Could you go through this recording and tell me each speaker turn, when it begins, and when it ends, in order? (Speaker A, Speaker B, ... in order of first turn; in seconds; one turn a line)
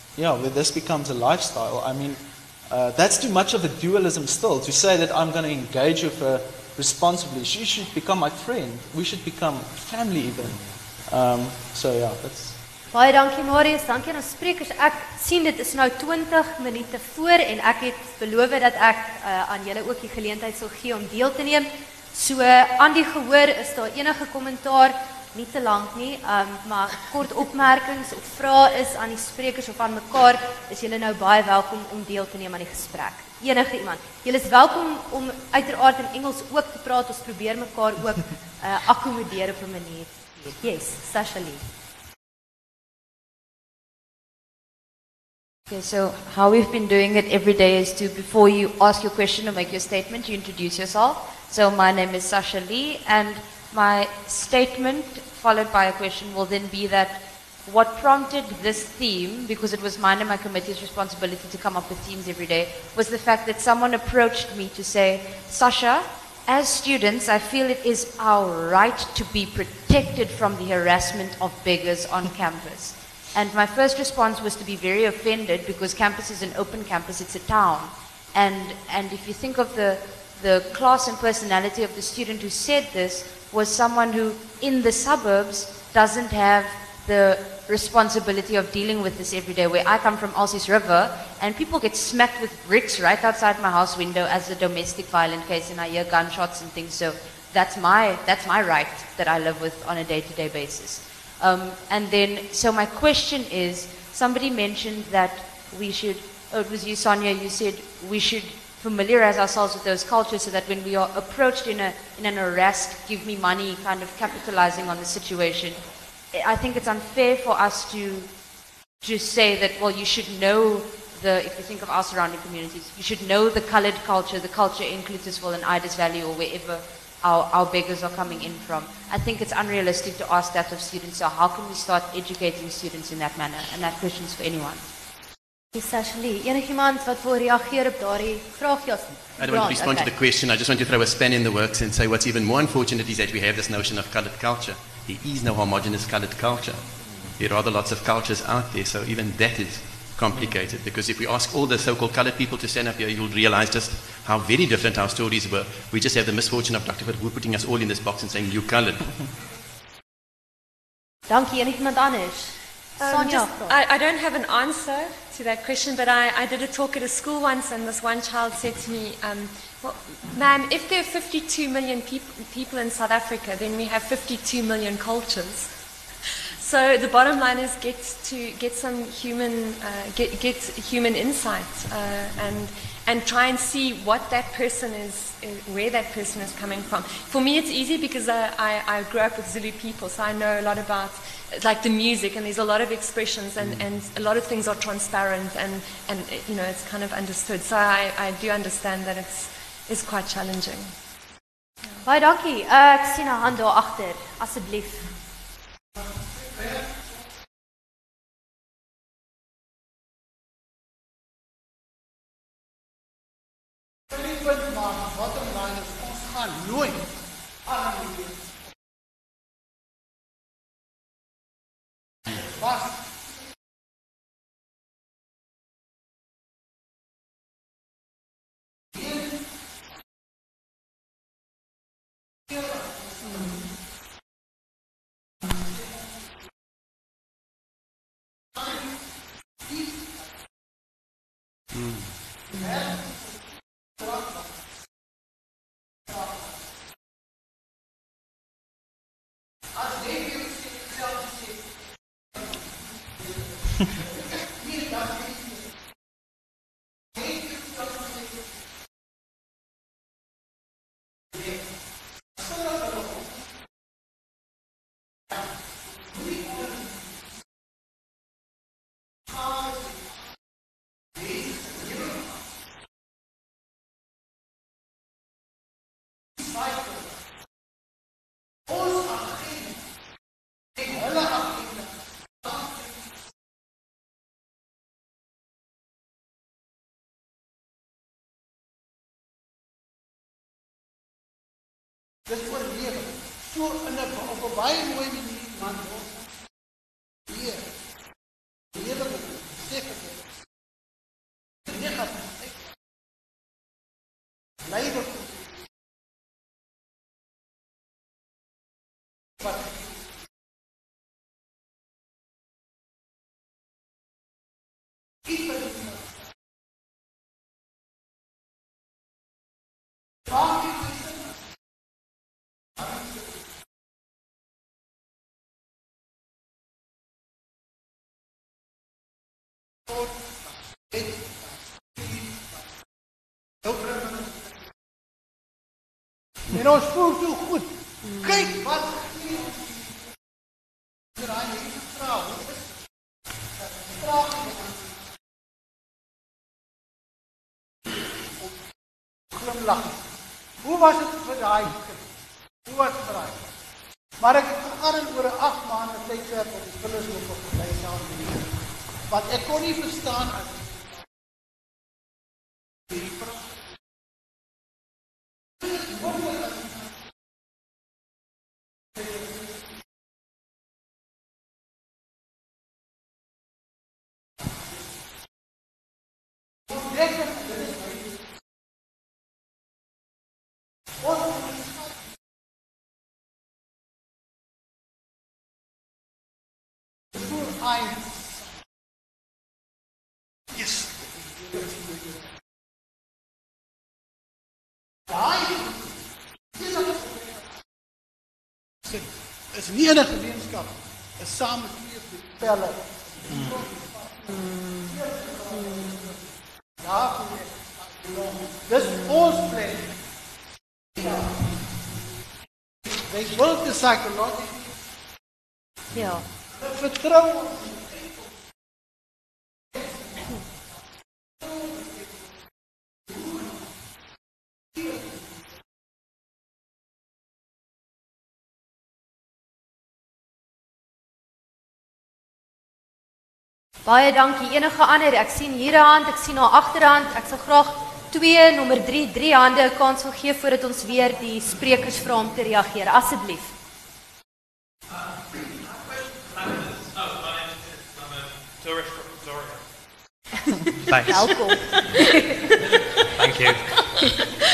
Speaker A: 0.2-12.6
Speaker B: 12.9-41.6
Speaker C: 45.7-118.3
Speaker C: 119.0-134.8
Speaker B: 135.7-140.1
Speaker D: 139.4-146.8
Speaker D: 147.4-159.2
Speaker B: 161.3-163.8
Speaker E: 163.0-175.7
Speaker E: 176.6-200.9
Speaker B: 202.1-205.1
Speaker F: 206.6-206.9
Speaker F: 214.1-217.1
Speaker F: 217.7-218.3
Speaker F: 222.6-222.9
Speaker D: 241.8-242.0
Speaker F: 280.9-281.2
Speaker F: 292.3-296.1
Speaker F: 297.3-297.6
Speaker F: 298.8-300.0
Speaker F: 301.7-302.3
Speaker F: 304.7-305.1
Speaker F: 336.5-337.6
Speaker F: 338.2-339.5
Speaker F: 341.2-342.4
Speaker F: 343.9-344.5
Speaker F: 349.3-350.0
Speaker F: 350.6-352.0
Speaker F: 352.7-353.4
Speaker F: 354.2-358.4
Speaker F: 359.1-360.5
Speaker F: 387.1-388.2
Speaker F: 391.5-391.8
Speaker F: 395.1-395.7
Speaker F: 396.6-397.0
Speaker F: 398.9-406.1
Speaker F: 406.8-409.9
Speaker F: 413.1-414.6
Speaker B: 415.9-416.2
Speaker F: 416.6-417.7
Speaker B: 433.9-443.5
Speaker G: 445.3-449.6
Speaker G: 450.8-451.5
Speaker B: 451.1-452.0
Speaker G: 453.2-453.9